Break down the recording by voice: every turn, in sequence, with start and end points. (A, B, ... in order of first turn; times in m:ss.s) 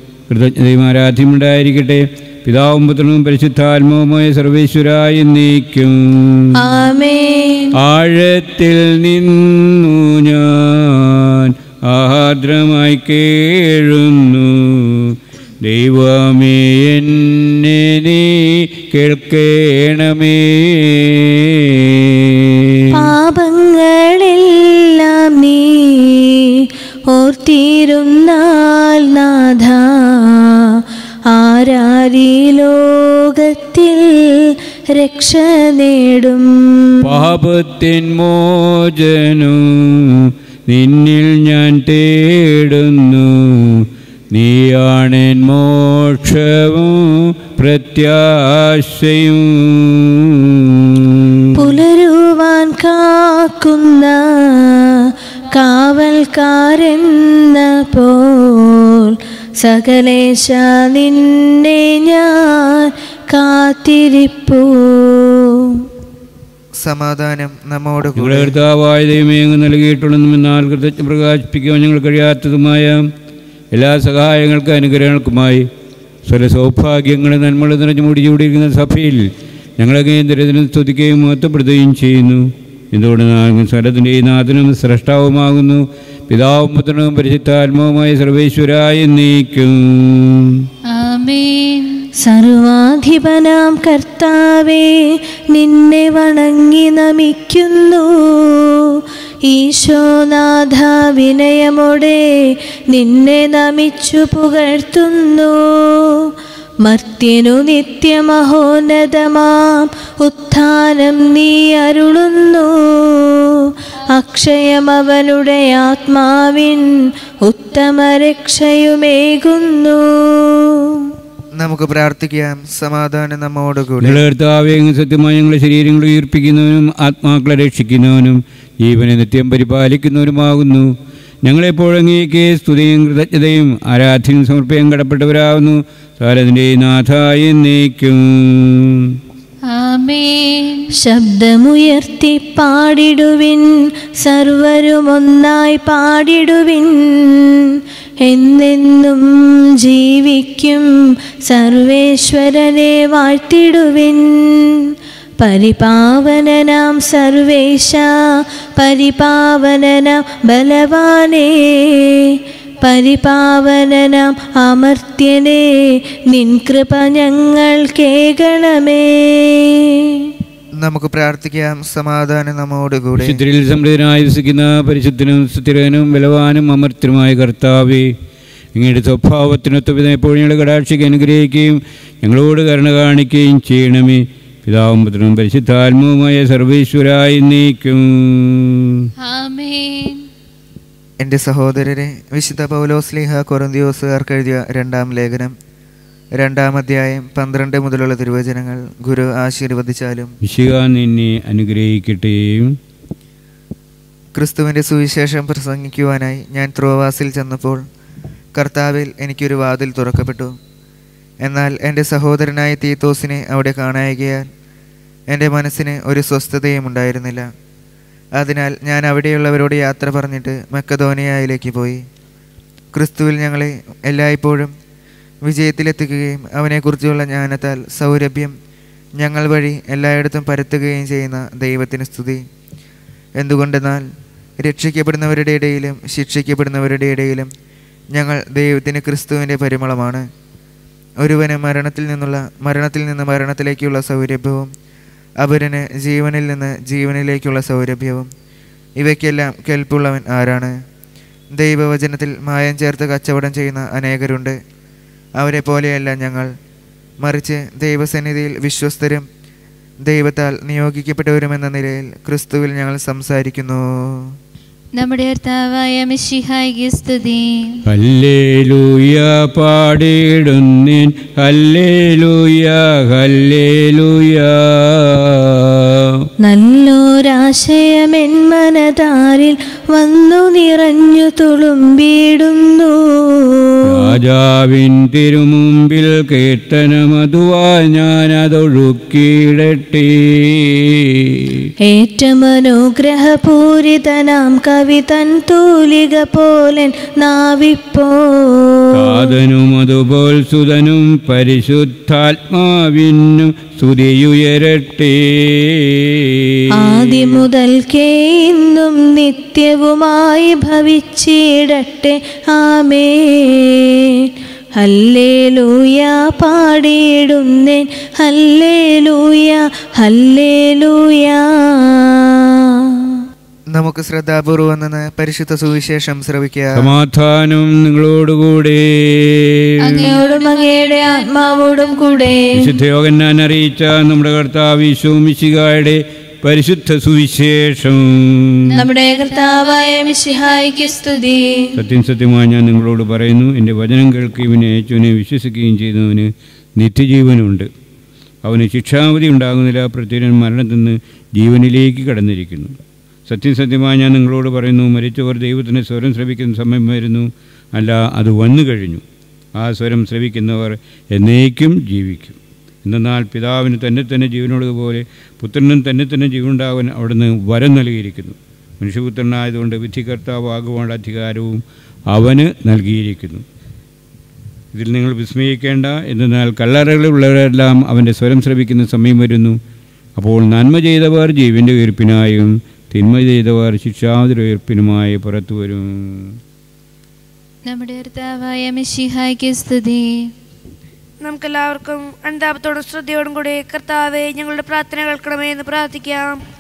0:00.3-0:06.6 A
0:06.5-0:07.7 B
0:07.8-0:23.0 A
0:22.9-0:37.1 B
0:37.0-0:51.7 A
0:51.5-1:05.9 B
1:06.8-1:08.6 C
1:08.2-1:13.1 A
1:13.7-1:15.7 A
1:16.2-1:30.7 A
1:30.9-1:32.1 D
1:32.2-1:46.3 B
1:46.8-1:53.6 B
1:54.1-1:56.9 B
1:57.4-2:01.0 B
2:01.6-2:04.2 C
2:04.0-2:10.9 A
2:11.4-2:19.2 A
2:19.7-2:20.9 D
2:20.9-2:30.9 B
2:31.5-2:50.3 B
2:50.8-2:53.4 C
2:53.2-2:58.1 A
2:58.7-3:09.1 A
3:09.2-3:10.2 D
3:11.2-3:15.6 C
3:16.4-3:20.4 C
3:20.4-3:22.8 A
3:24.4-3:27.8 C
3:28.6-3:30.5 C
3:31.4-3:34.5 C
3:35.3-3:37.5 C
3:38.4-3:42.0 C
3:42.9-3:44.7 C
3:45.4-3:48.6 C
3:49.2-3:52.4 C
3:53.4-3:54.1 C
3:54.6-3:57.5 C
3:58.1-4:00.3 C
4:01.2-4:04.7 C
4:05.4-4:08.3 C
4:09.0-4:10.8 C
4:11.5-4:14.6 C
4:15.4-4:16.5 C
4:17.2-4:19.3 C
4:20.0-4:24.3 C
4:25.0-4:27.8 D
4:27.9-4:36.3 A
4:36.4-4:44.1 B
4:43.9-4:51.7 A
4:51.8-4:59.3 B
4:58.9-5:07.4 A
5:06.7-5:23.0 B
5:23.7-5:26.9 C
5:26.8-5:29.8 A
5:29.9-5:31.0 D
5:29.9-5:32.6 B
5:32.6-5:38.8 A
5:38.8-5:41.7 B
5:41.8-5:47.7 A
5:48.4-5:59.0 A
5:59.6-6:13.4 A
6:14.7-6:19.6 A
6:20.2-6:26.4 A
6:27.6-6:30.3 D
6:31.2-6:36.4 E